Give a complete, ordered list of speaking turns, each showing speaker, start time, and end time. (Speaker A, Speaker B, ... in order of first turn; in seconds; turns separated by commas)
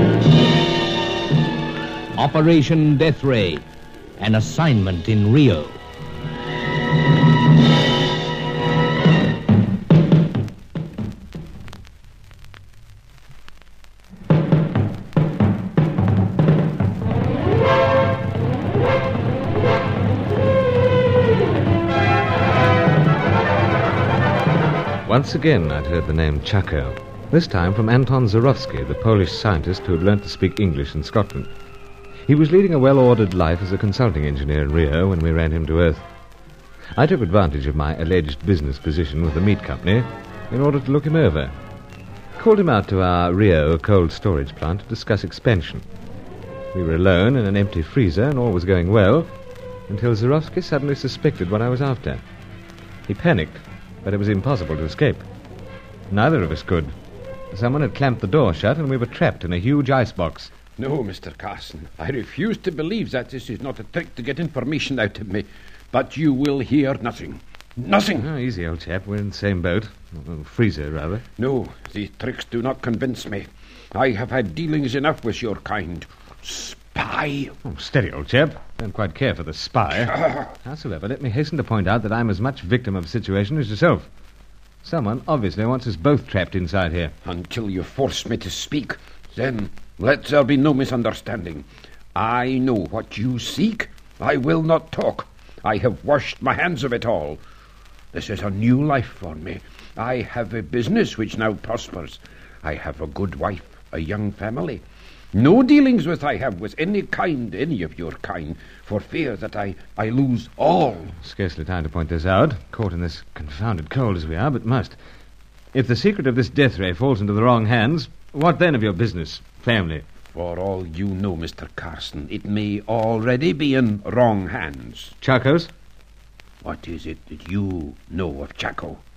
Speaker A: 2.1-3.6, Speaker A: 4.2-5.8, Speaker B: 25.1-31.5, Speaker B: 32.2-36.0, Speaker B: 37.0-41.5, Speaker B: 42.4-45.8, Speaker B: 46.7-49.3, Speaker B: 49.9-52.2, Speaker B: 53.1-55.2, Speaker B: 56.1-56.9, Speaker B: 57.5-60.5, Speaker C: 60.8-68.3, Speaker B: 68.2-71.2, Speaker C: 71.4-77.5, Speaker B: 77.6-84.1, Speaker B: 84.8-87.1, Speaker C: 87.2-97.4, Speaker C: 98.1-111.1, Speaker B: 111.2-115.0, Speaker B: 115.7-120.0, Speaker C: 120.3-125.1, Speaker B: 125.2-125.7, Speaker C: 126.6-129.0